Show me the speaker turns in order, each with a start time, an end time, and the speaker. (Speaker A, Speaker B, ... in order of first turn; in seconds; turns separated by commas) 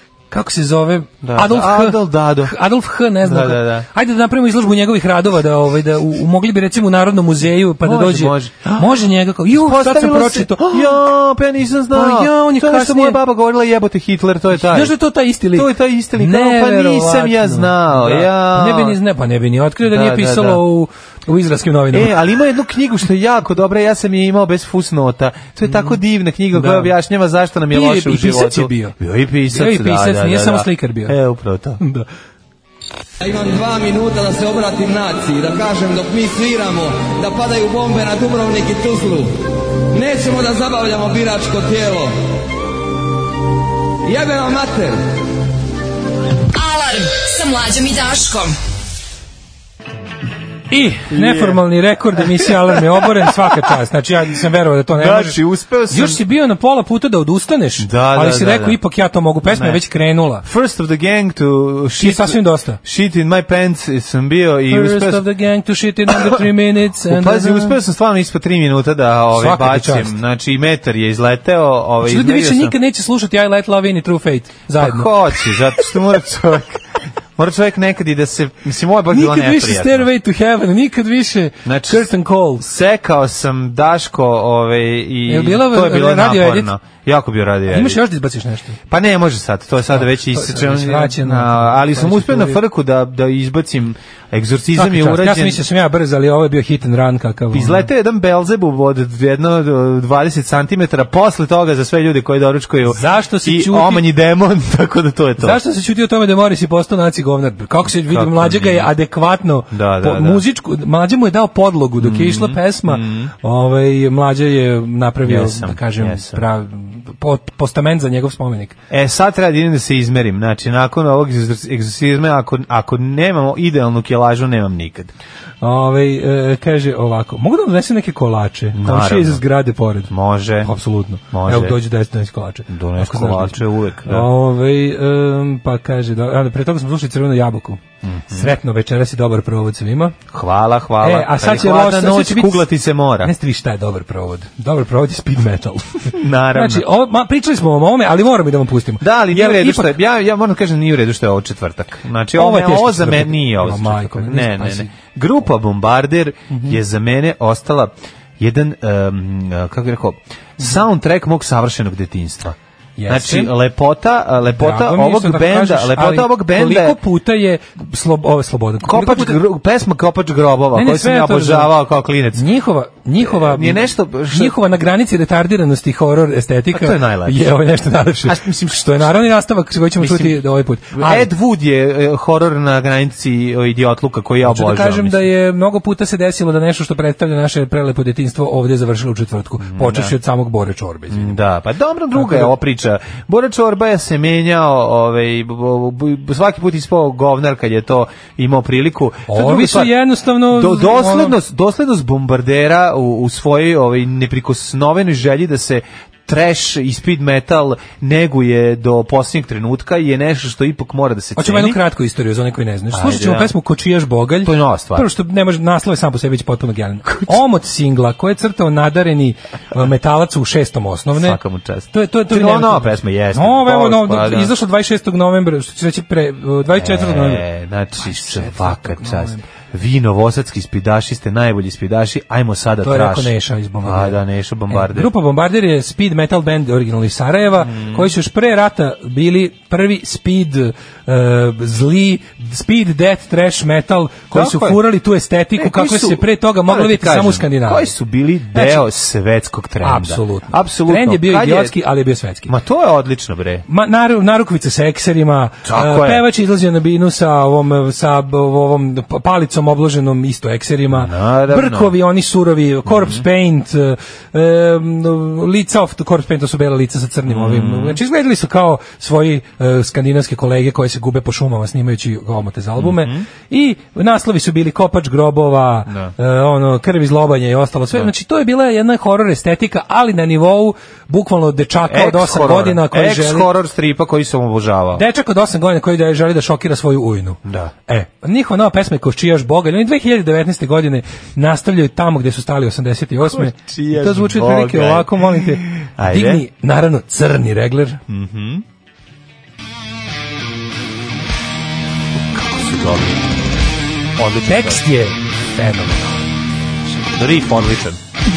Speaker A: 0.3-11.0, Speaker B: 1.2-2.5, Speaker B: 3.2-3.9, Speaker B: 7.8-14.9, Speaker A: 11.9-13.2, Speaker A: 14.5-22.1, Speaker B: 15.5-19.0, Speaker B: 19.8-20.6, Speaker B: 21.9-31.8, Speaker A: 26.5-26.9, Speaker A: 27.7-28.9, Speaker A: 29.5-31.2, Speaker A: 31.8-32.1, Speaker C: 33.2-39.3, Speaker C: 39.9-42.1, Speaker C: 44.0-45.0, Speaker D: 46.5-48.6, Speaker A: 50.7-55.4, Speaker B: 51.1-51.6, Speaker B: 52.2-53.5, Speaker B: 54.9-56.2, Speaker A: 55.9-60.4, Speaker B: 57.8-58.8, Speaker B: 59.5-59.8, Speaker B: 60.4-65.2, Speaker A: 62.0-62.8, Speaker A: 64.7-67.8, Speaker B: 66.1-66.4, Speaker B: 67.0-72.7, Speaker A: 69.3-70.1, Speaker A: 72.0-75.2, Speaker B: 74.8-76.8, Speaker B: 77.4-80.1, Speaker A: 79.1-82.6, Speaker B: 81.6-88.0, Speaker A: 85.3-86.7, Speaker A: 87.7-88.8, Speaker B: 88.9-95.6, Speaker A: 89.9-92.6, Speaker A: 94.7-97.9, Speaker B: 97.5-105.6, Speaker A: 102.9-104.1, Speaker A: 105.4-118.8, Speaker B: 108.0-108.9, Speaker B: 109.7-110.4, Speaker B: 112.0-113.3, Speaker B: 115.2-116.4, Speaker B: 118.9-125.1, Speaker A: 125.6-130.1, Speaker B: 128.7-129.4, Speaker B: 130.1-130.7, Speaker A: 130.6-140.2, Speaker B: 131.3-131.8, Speaker B: 132.7-134.3, Speaker B: 138.0-138.5, Speaker B: 140.3-143.3, Speaker A: 141.0-142.7, Speaker A: 143.2-149.9, Speaker B: 146.1-146.9, Speaker B: 149.0-162.6, Speaker A: 152.3-154.9, Speaker A: 156.5-156.8, Speaker A: 163.0-163.5, Speaker B: 163.1-167.0, Speaker A: 164.5-169.4, Speaker B: 168.8-172.4, Speaker A: 170.7-171.7, Speaker A: 172.3-181.3, Speaker B: 173.2-174.6, Speaker B: 176.7-177.6, Speaker B: 178.2-179.3, Speaker B: 180.0-180.4, Speaker B: 180.9-185.3, Speaker A: 184.4-191.4, Speaker B: 189.6-190.1, Speaker B: 191.1-211.8, Speaker A: 192.1-192.5, Speaker A: 199.3-201.3, Speaker A: 211.4-221.4, Speaker B: 212.9-213.5, Speaker B: 214.4-215.1, Speaker B: 221.1-224.5, Speaker A: 221.9-227.4, Speaker B: 226.7-235.1, Speaker A: 227.9-229.4, Speaker A: 232.8-247.9, Speaker B: 237.6-238.1, Speaker B: 244.3-244.8, Speaker B: 245.6-251.8, Speaker A: 248.5-248.8, Speaker A: 249.8-252.5, Speaker B: 252.5-253.7, Speaker A: 253.7-283.5, Speaker B: 255.6-256.2, Speaker B: 260.9-261.9, Speaker B: 262.9-263.2, Speaker B: 267.3-268.0, Speaker B: 272.8-273.2, Speaker B: 275.9-276.1, Speaker B: 281.9-285.0, Speaker A: 284.9-298.0, Speaker B: 287.4-287.7, Speaker B: 293.2-296.4, Speaker B: 298.1-298.6, Speaker B: 302.2-303.4, Speaker B: 304.2-304.8, Speaker A: 304.4-306.3, Speaker B: 307.1-308.0